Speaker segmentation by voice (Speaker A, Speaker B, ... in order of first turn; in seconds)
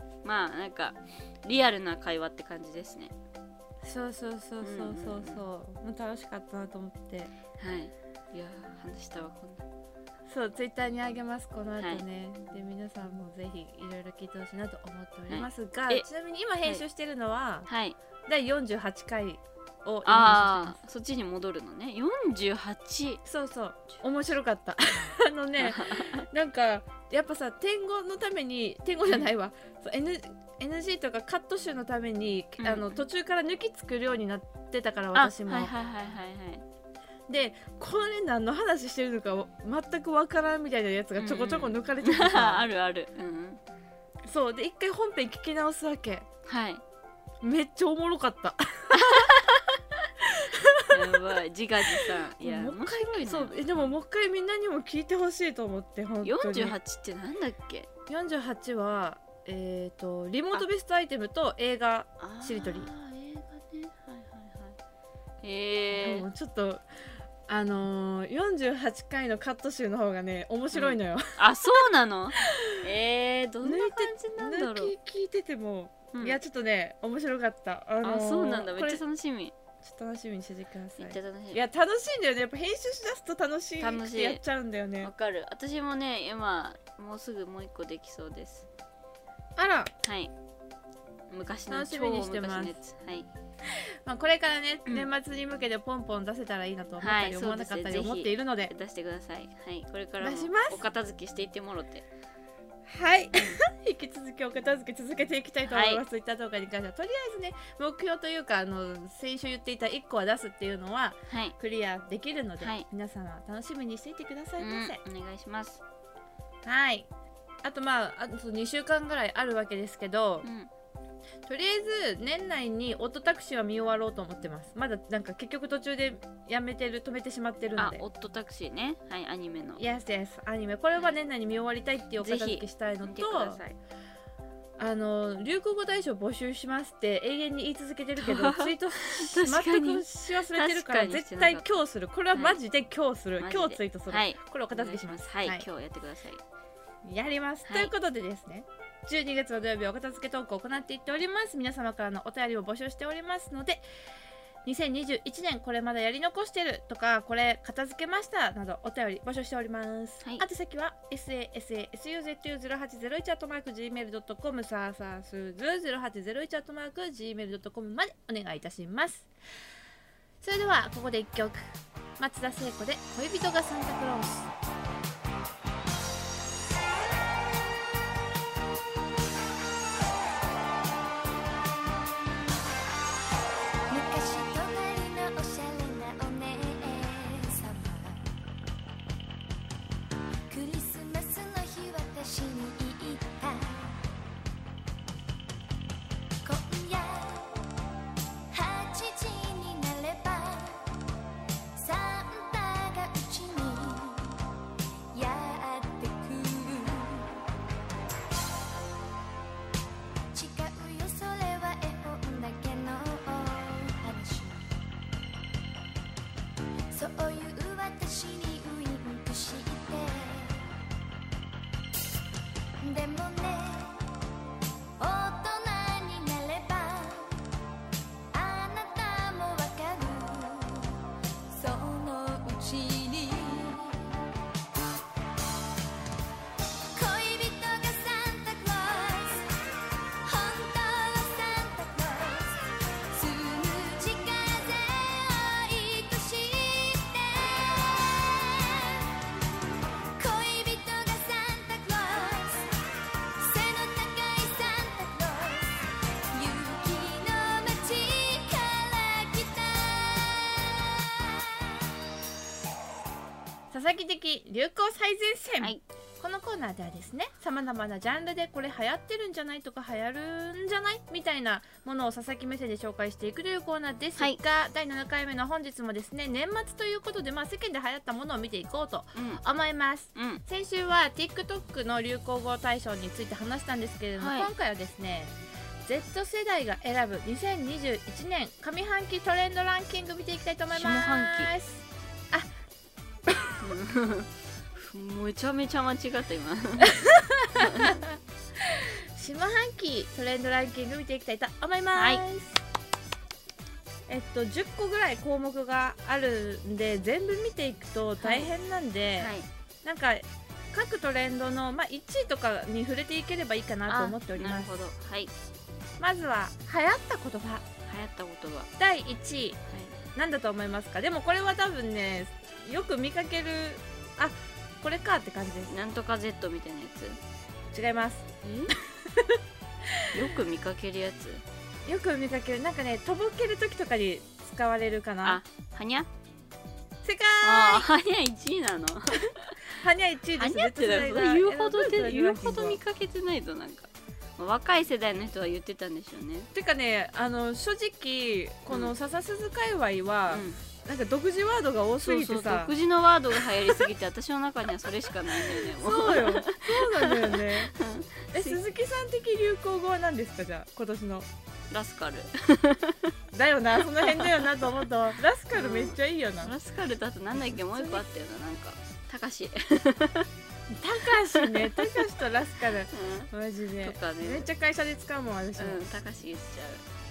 Speaker A: 0.2-3.1, 4.6-5.4, 7.6-9.6, 15.3-16.1, 17.7-18.0, 20.0-23.2, 25.6-26.2, 32.6-33.0, 35.1-36.6, 41.2-43.6, 46.5-46.8, 49.0-49.8, 50.9-53.9, 56.2-57.9, 62.2-64.8, 65.4-66.3, 70.7-74.9, 76.1-76.4, 78.0-79.5, 81.0-81.6, 83.8-84.4, 85.0-88.7, 90.0-90.3, 91.3-93.3, 97.0-102.0, 103.3-103.6, 105.6-106.0, 111.3-111.5, 112.6-112.8, 114.6-115.8, 120.4-120.7, 127.8-129.8, 132.2-133.8, 138.2-141.7, 143.4-146.4, 147.7-147.9, 279.1-279.4, 280.1-280.4, 284.2-284.5, 290.7-291.5, 293.6-296.9, 297.6-298.0, 301.9-302.2, 308.2-308.5, 309.2-309.5, 313.9-315.3, 317.9-318.7, 319.7-320.0, 325.7-327.2, 328.4-328.7, 330.1-331.4, 335.2-336.1, 337.4-339.6, 340.4-346.5, 350.3-350.6, 352.0-358.6, 361.7-363.1, 364.0-364.6, 365.5-370.3, 371.3-372.0, 372.9-373.3, 373.8-374.5, 375.6-376.8
Speaker B: 3.8-7.3, 10.3-17.7, 18.3-20.8, 23.2-35.7, 37.3-42.6, 44.2-46.2, 47.4-49.3, 50.3-51.2, 51.9-56.8, 58.1-62.9, 65.9-66.8, 67.5-71.8, 72.5-72.8, 73.6-79.0, 79.8-85.1, 89.6-89.9, 91.7-92.7, 94.0-98.7, 100.2-100.8, 102.9-115.0, 116.6-117.1, 117.6-120.5, 121.5-128.0, 129.8-133.6, 134.8-145.7, 147.0-153.8, 154.6-169.3, 170.4-174.5, 263.7-292.5, 296.9-298.1, 298.6-302.6, 304.1-309.3, 309.8-314.8, 316.0-317.6, 318.8-319.6, 320.1-325.7, 327.7-328.3, 328.9-329.4, 329.9-330.2, 331.9-335.4, 337.0-337.9, 339.7-342.8, 346.5-352.7, 355.5-357.7, 358.3-361.3, 363.3-366.5, 367.4-368.0, 370.7-375.8
Speaker C: 183.9-188.2, 190.5-194.0, 196.4-197.5, 198.5-200.9, 201.7-204.3, 205.1-207.4, 210.3-214.7, 216.9-220.7, 222.8-224.0, 225.0-227.4, 228.3-231.0, 231.5-234.1, 236.9-239.5, 240.2-249.2, 250.2-252.7, 253.4-261.7